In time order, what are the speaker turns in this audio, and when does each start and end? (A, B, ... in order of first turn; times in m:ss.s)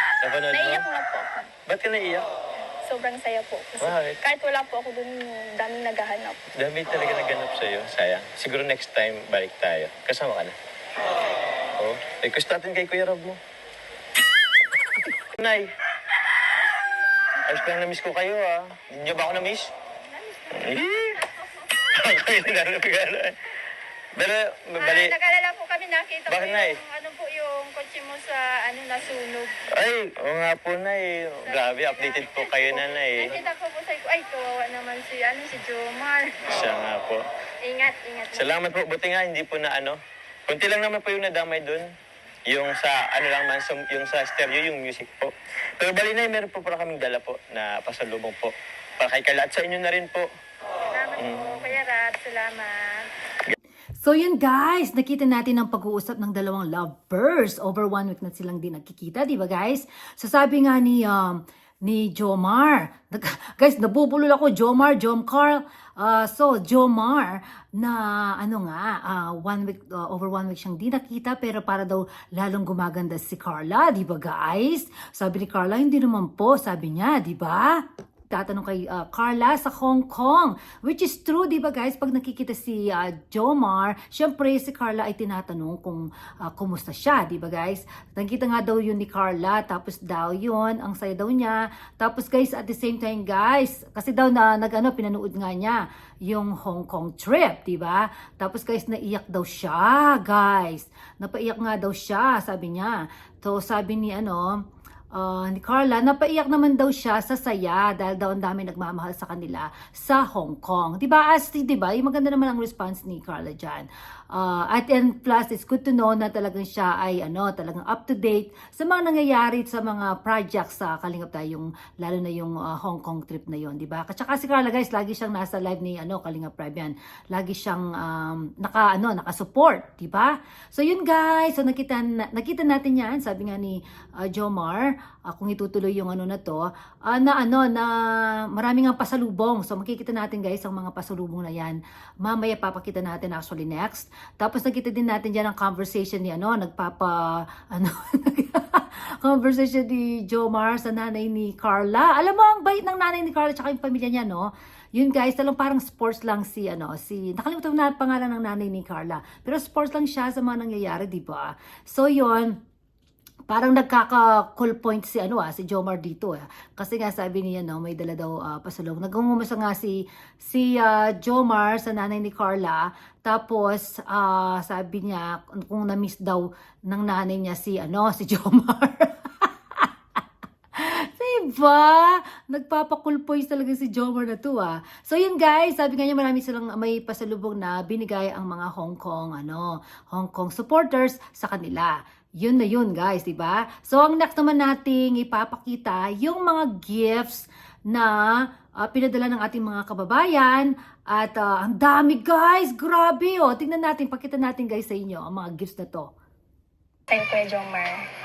0:00.2-0:00.8 A
0:00.5-0:01.5 B
0:01.6-0:02.2 A
0:02.8-0:06.4 B
0:03.8-0:04.2 A
0:06.6-0:10.5 A
0:11.8-0:13.4 A
0:15.3-0:15.7 A
0:17.4-0:19.7 A
0:20.5-0:23.4 A
0:24.2-0:25.1 A
0:24.8-0:29.6 C
0:26.3-0:26.8 A
0:29.7-0:33.4 A
0:31.5-0:36.4 C
0:36.4-0:37.2 A
0:37.6-0:38.5 C
0:38.3-0:41.9 A
0:42.5-0:50.3 A
0:50.9-0:52.8 C
0:51.2-0:51.7 A
0:54.0-1:44.6 D
1:45.1-2:42.6 D
2:43.5-2:59.9 D
3:00.7-3:26.1 D
3:27.1-3:28.0 B